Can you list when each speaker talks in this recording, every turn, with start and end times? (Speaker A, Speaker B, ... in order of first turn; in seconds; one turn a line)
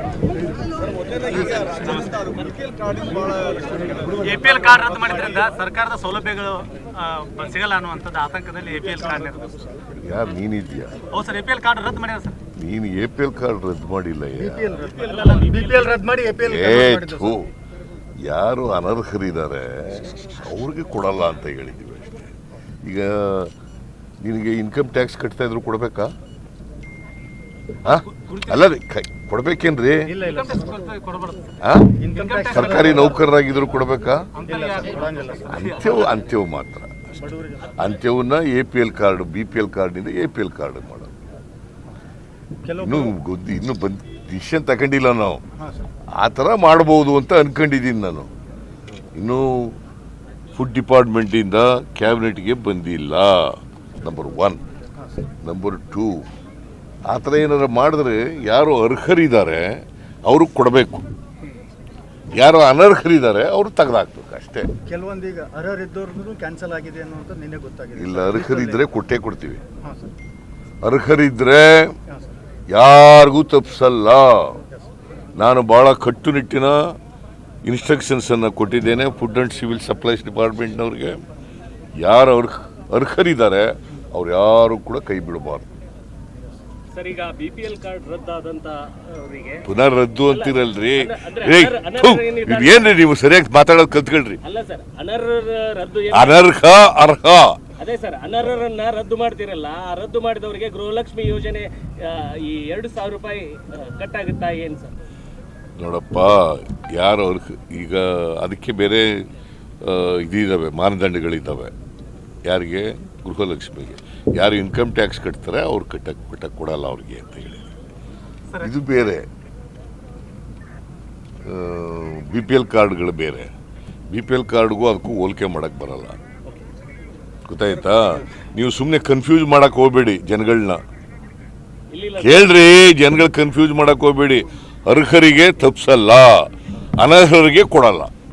Speaker A: 1.3-2.3
Speaker A: 4.1-9.6
Speaker B: 10.0-11.0
Speaker A: 11.1-12.4
Speaker B: 12.6-14.8
Speaker C: 14.4-17.4
Speaker D: 14.9-16.0
Speaker B: 16.4-17.5
Speaker B: 18.2-23.5
Speaker B: 24.2-26.1
Speaker B: 27.8-30.1
Speaker A: 28.1-28.6
Speaker C: 30.1-30.8
Speaker A: 30.2-31.6
Speaker B: 31.6-34.3
Speaker C: 32.0-33.2
Speaker A: 32.1-33.1
Speaker C: 34.4-35.6
Speaker A: 34.4-36.2
Speaker B: 35.5-37.1
Speaker C: 37.2-37.9
Speaker B: 37.8-41.2
Speaker C: 42.6-43.1
Speaker B: 42.8-45.4
Speaker C: 45.6-45.9
Speaker B: 46.2-48.3
Speaker B: 49.1-49.8
Speaker B: 50.5-54.6
Speaker C: 55.0-55.2
Speaker B: 55.4-56.2
Speaker B: 57.1-61.0
Speaker B: 62.3-64.7
Speaker C: 64.9-68.8
Speaker B: 68.0-69.6
Speaker C: 69.8-70.1
Speaker B: 70.8-72.0
Speaker C: 72.1-72.3
Speaker B: 72.7-74.6
Speaker B: 75.4-76.8
Speaker B: 77.6-81.2
Speaker B: 82.0-85.7
Speaker D: 86.9-89.7
Speaker B: 89.7-94.4
Speaker D: 90.3-93.0
Speaker D: 94.4-96.5
Speaker B: 96.1-97.6
Speaker D: 97.8-105.0
Speaker B: 105.8-109.2
Speaker B: 109.8-111.7
Speaker B: 112.5-117.6
Speaker B: 118.6-119.2
Speaker B: 121.4-123.5
Speaker B: 124.1-126.2
Speaker B: 127.5-130.8
Speaker D: 131.9-132.5
Speaker B: 132.2-136.5
Speaker B: 137.0-138.1